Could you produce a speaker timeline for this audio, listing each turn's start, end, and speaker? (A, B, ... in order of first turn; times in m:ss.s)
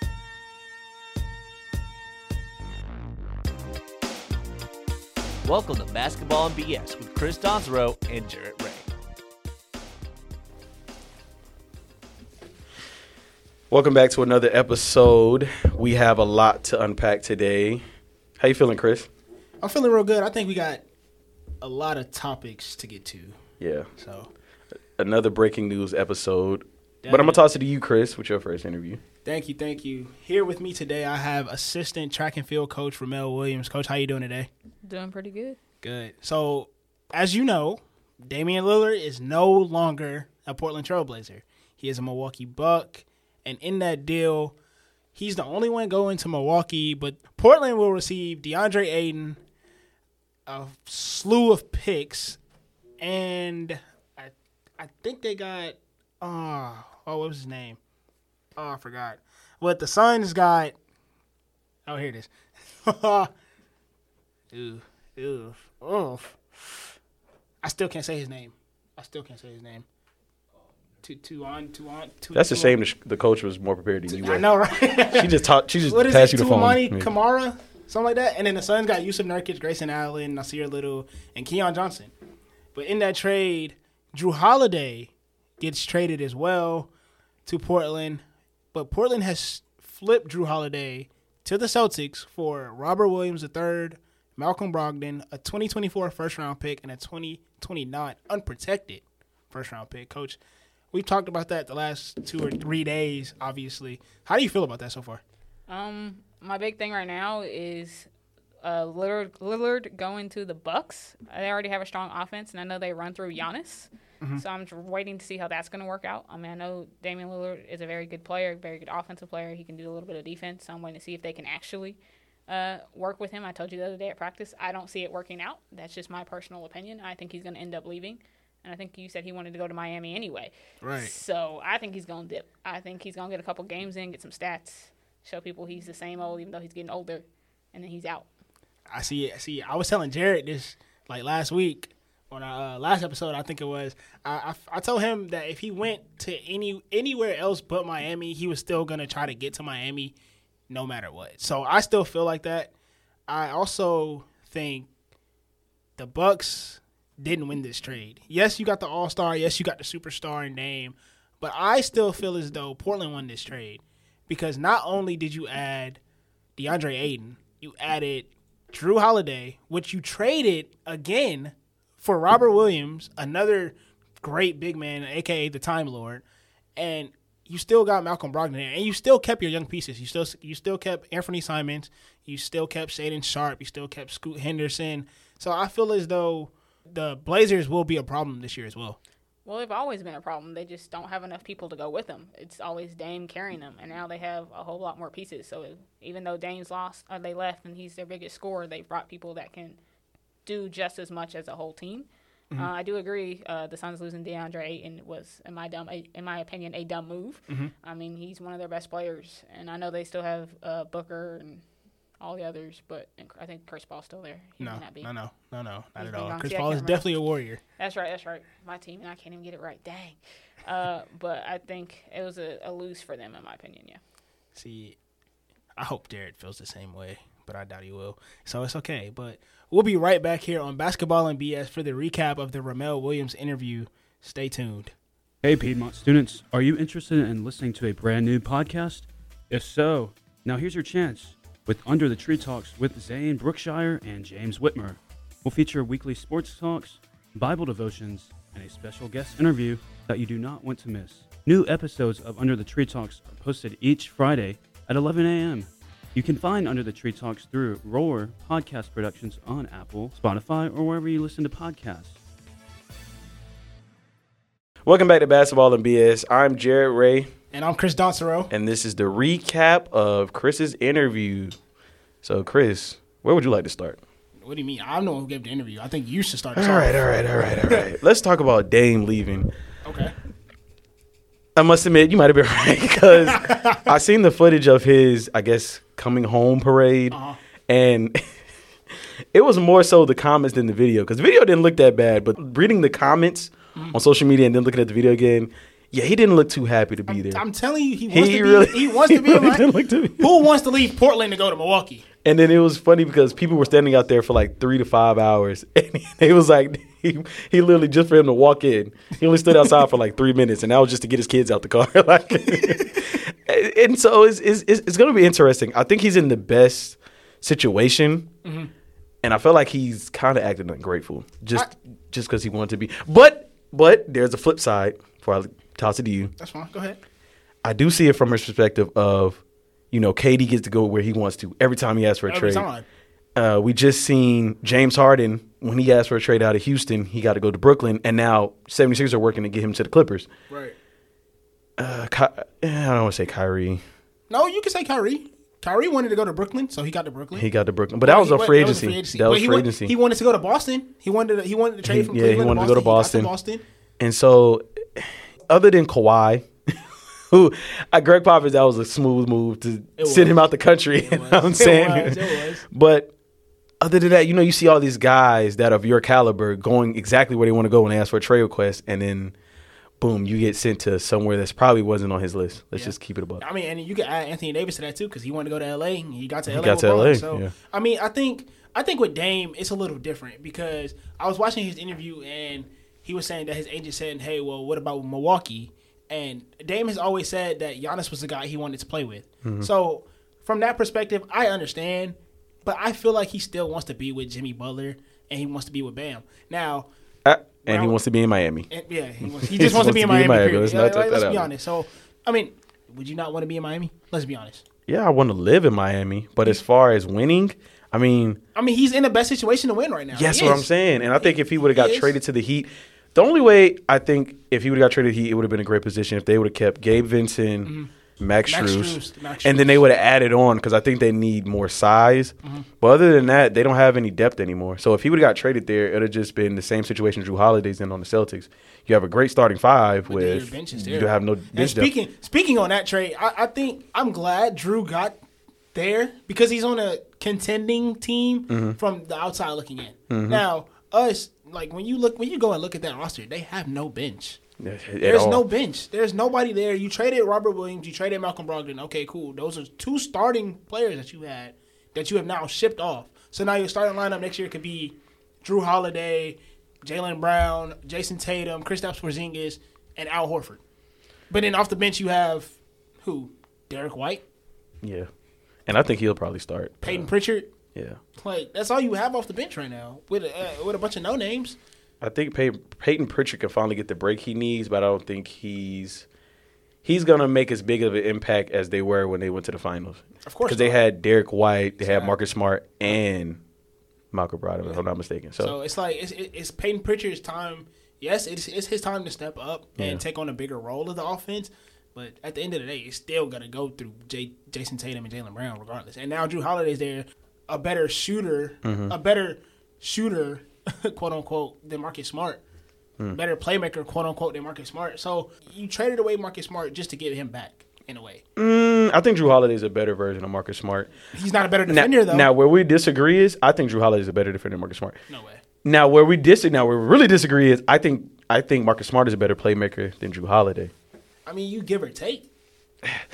0:05.4-0:08.9 A
0:13.7-0:17.8 B
0:18.4-0:19.1 B
0:19.6-0:20.8 C
0:21.6-0:23.4 C
0:23.6-0:23.9 B
0:24.0-0:24.3 C
0:25.0-0:29.0 B
0:27.0-0:27.4 C
0:29.2-0:34.5 C
0:34.8-0:35.6 D
0:35.8-0:44.5 C
0:45.1-0:49.4 C
0:50.4-0:52.4 C
0:53.0-0:57.8 C
0:58.6-1:00.7 C
1:01.8-1:02.3 C
1:02.8-1:03.3 C
1:04.5-1:06.7 C
1:07.6-1:09.8 C
1:11.0-1:12.8 C
1:12.3-1:17.1 B
1:14.1-1:22.1 C
1:22.7-1:26.9 C
1:27.4-1:28.2 C
1:28.7-1:40.4 C
1:40.9-1:45.2 C
1:45.7-1:48.1 D
1:48.6-2:18.3 D
2:10.8-2:11.1 C
2:18.9-2:30.1 C
2:30.7-2:32.7 C
2:33.3-2:34.9 C
2:36.0-2:46.0 C
2:46.6-2:56.2 C
2:56.8-3:09.0 C
3:09.4-3:19.8 D
3:20.4-3:31.6 D
3:32.2-3:35.1 D
3:34.6-3:37.6 C
3:36.0-3:37.1 D
3:37.8-3:44.0 D
3:44.5-3:45.0 C
3:45.8-3:54.9 C
3:55.4-4:22.2 E
4:24.8-4:27.3 B
4:27.5-4:28.5 C
4:28.5-4:31.6 B
4:32.2-4:34.0 B
4:34.4-4:37.8 C
4:36.5-4:39.5 B
4:39.8-4:40.1 C
4:41.6-4:48.2 B
4:43.3-4:43.8 C
4:47.1-4:47.4 C
4:49.3-4:57.4 B
4:57.1-5:02.0 C
4:58.1-5:00.5 B
5:02.2-5:18.3 B
5:18.4-5:18.7 C
5:19.2-5:26.3 B
5:26.4-5:27.0 C
5:27.6-5:29.4 B
5:29.9-5:32.7 B
5:32.3-5:32.8 C
5:33.4-5:40.3 B
5:40.5-5:40.7 C
5:41.8-5:43.8 B
5:44.3-5:47.4 C
5:47.3-5:49.9 B
5:48.0-5:53.6 C
5:51.8-5:53.3 B
5:54.0-5:56.8 B
5:57.3-6:03.1 B
6:00.0-6:00.5 C
6:01.0-6:02.6 C
6:03.8-6:09.3 B
6:10.0-6:13.4 B
6:12.7-6:36.9 C
6:16.5-6:17.5 B
6:29.4-6:29.7 B
6:37.2-6:38.7 B
6:37.6-6:38.0 C
6:38.7-6:44.6 C
6:39.2-6:41.5 B
6:44.9-6:48.4 B
6:48.5-6:50.7 C
6:50.1-7:11.9 B
6:51.2-6:52.1 C
6:57.6-6:57.9 C
6:58.5-6:59.8 C
7:10.0-7:15.2 C
7:15.7-7:24.4 C
7:18.5-7:18.8 B
7:20.1-7:20.4 B
7:24.6-7:25.5 B
7:25.0-7:40.6 C
7:41.3-7:44.2 C
7:44.8-7:45.1 B
7:45.7-7:47.1 B
7:46.8-7:47.5 C
7:47.7-7:48.0 B
7:48.2-7:51.6 C
7:52.0-7:56.0 B
7:56.8-8:03.4 B
8:00.2-8:00.8 C
8:01.8-8:02.1 C
8:04.1-8:05.6 B
8:05.4-8:22.4 C
8:09.8-8:10.0 B
8:18.6-8:18.9 B
8:23.1-8:28.2 C
8:28.4-8:30.9 B
8:31.1-8:32.3 C
8:31.7-8:35.0 B
8:35.1-8:35.4 C
8:35.6-8:40.7 B
8:41.2-8:42.3 C